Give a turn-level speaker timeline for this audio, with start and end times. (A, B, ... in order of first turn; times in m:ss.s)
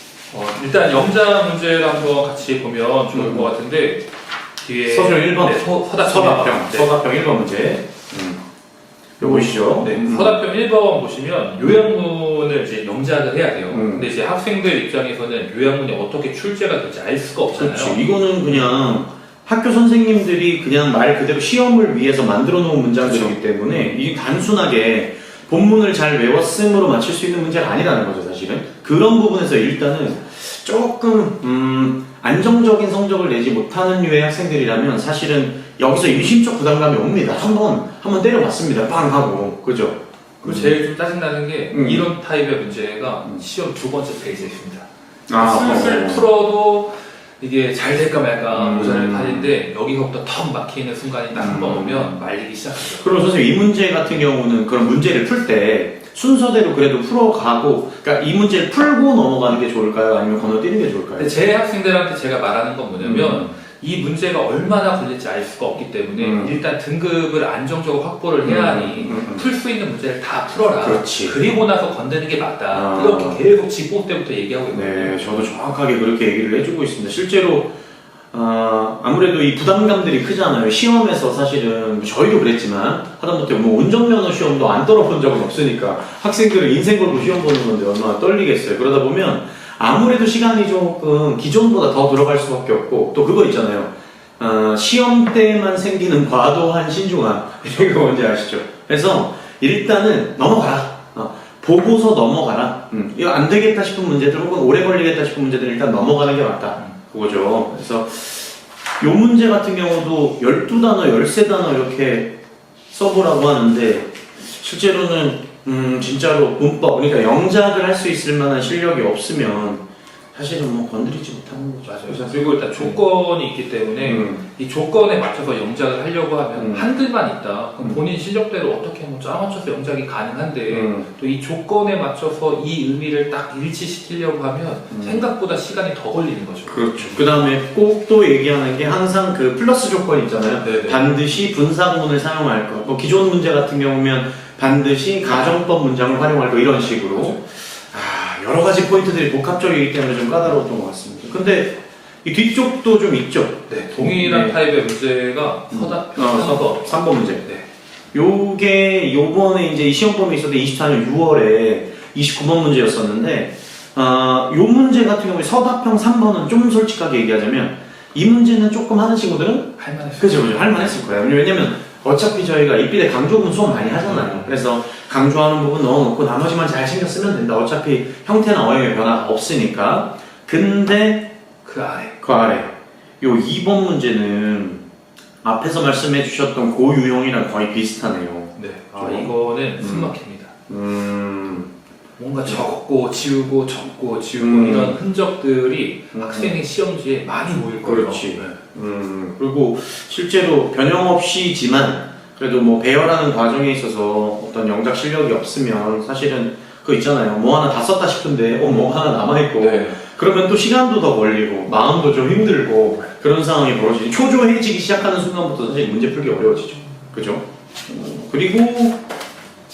0:00.3-0:04.1 A
0:03.1-0:03.5 B
0:04.6-0:06.9 A
0:04.9-0:08.4 B
0:09.2-0:10.4 B
0:09.2-0:18.0 A
0:13.7-0:14.1 B
0:17.5-0:40.8 B
0:23.7-0:24.0 A
0:40.4-0:53.2 A
0:41.7-0:42.1 B
0:45.3-0:46.3 B
0:48.5-0:49.5 B
0:51.3-0:52.2 B
0:52.8-1:01.3 B
1:01.2-1:15.2 A
1:03.0-1:03.6 B
1:06.2-1:06.6 B
1:08.4-1:09.4 B
1:10.8-1:11.4 B
1:12.7-1:13.4 B
1:14.7-1:17.7 B
1:18.3-1:52.3 B
1:52.9-2:03.0 B
2:01.8-2:17.2 A
2:04.0-2:04.4 B
2:06.6-2:06.9 B
2:10.7-2:11.1 B
2:14.9-2:15.3 B
2:16.7-2:34.6 B
2:20.6-2:21.0 A
2:33.7-2:37.6 A
2:35.7-2:37.4 B
2:38.1-3:01.3 B
2:49.8-2:51.0 A
2:53.9-2:54.6 A
3:01.6-3:02.2 A
3:02.2-3:04.8 B
3:05.4-3:10.1 B
3:08.6-3:10.5 A
3:10.7-3:11.7 B
3:12.2-3:18.6 A
3:14.4-3:15.0 B
3:16.1-3:16.6 B
3:17.8-3:39.0 B
3:29.6-3:30.0 A